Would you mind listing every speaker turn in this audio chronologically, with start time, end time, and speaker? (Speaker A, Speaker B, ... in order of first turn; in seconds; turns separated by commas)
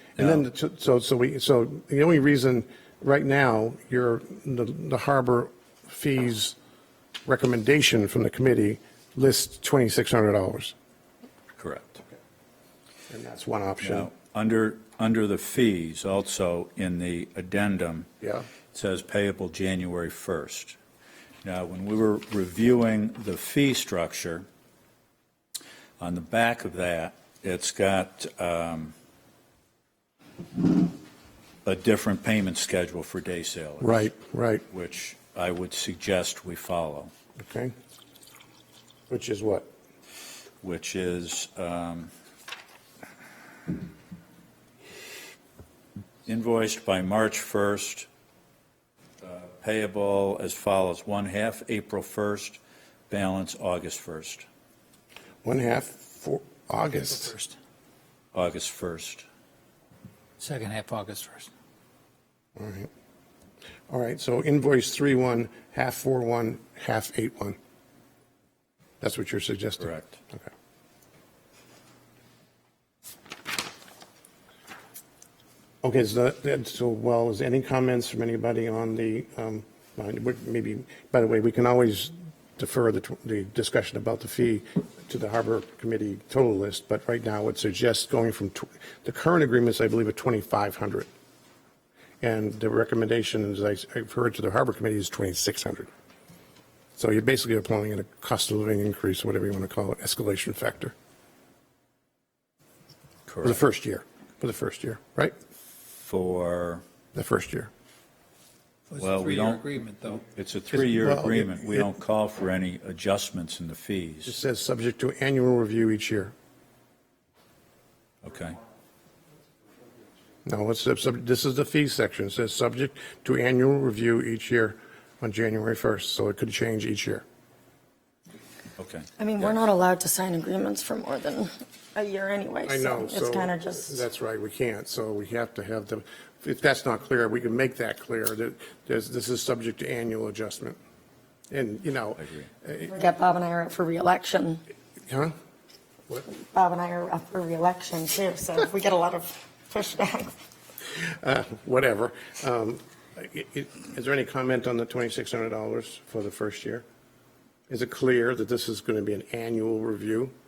Speaker A: 0.1-6.5, Speaker A: 7.2-10.7, Speaker B: 11.6-12.0, Speaker A: 13.1-14.1, Speaker B: 13.8-18.1, Speaker A: 18.2-18.5, Speaker B: 18.7-20.8, Speaker B: 21.4-24.4, Speaker B: 26.0-28.9, Speaker B: 31.6-34.1, Speaker A: 33.8-34.6, Speaker B: 34.7-37.1, Speaker A: 37.4-37.7, Speaker A: 39.1-39.7, Speaker B: 40.6-42.1, Speaker B: 46.2-48.1, Speaker B: 49.2-54.5, Speaker A: 55.4-57.4, Speaker B: 58.3-59.2, Speaker C: 60.4-61.5, Speaker A: 62.5-62.9, Speaker A: 63.9-67.6, Speaker A: 69.0-70.5, Speaker B: 69.8-70.2, Speaker A: 75.8-91.1, Speaker A: 92.2-95.9, Speaker A: 97.0-100.9, Speaker B: 103.3-103.6, Speaker A: 103.4-105.3, Speaker B: 106.0-106.8, Speaker A: 107.1-107.7, Speaker C: 108.9-110.2, Speaker B: 109.0-109.6, Speaker B: 110.2-114.3, Speaker A: 110.7-111.9, Speaker A: 114.2-116.3, Speaker B: 118.2-118.6, Speaker A: 120.4-127.2, Speaker B: 128.8-129.6, Speaker D: 129.2-134.0, Speaker A: 132.6-140.8, Speaker A: 141.5-142.9, Speaker B: 142.2-142.5, Speaker D: 142.9-144.6, Speaker A: 145.1-145.3, Speaker D: 146.3-150.3, Speaker A: 150.9-156.8, Speaker A: 157.7-160.3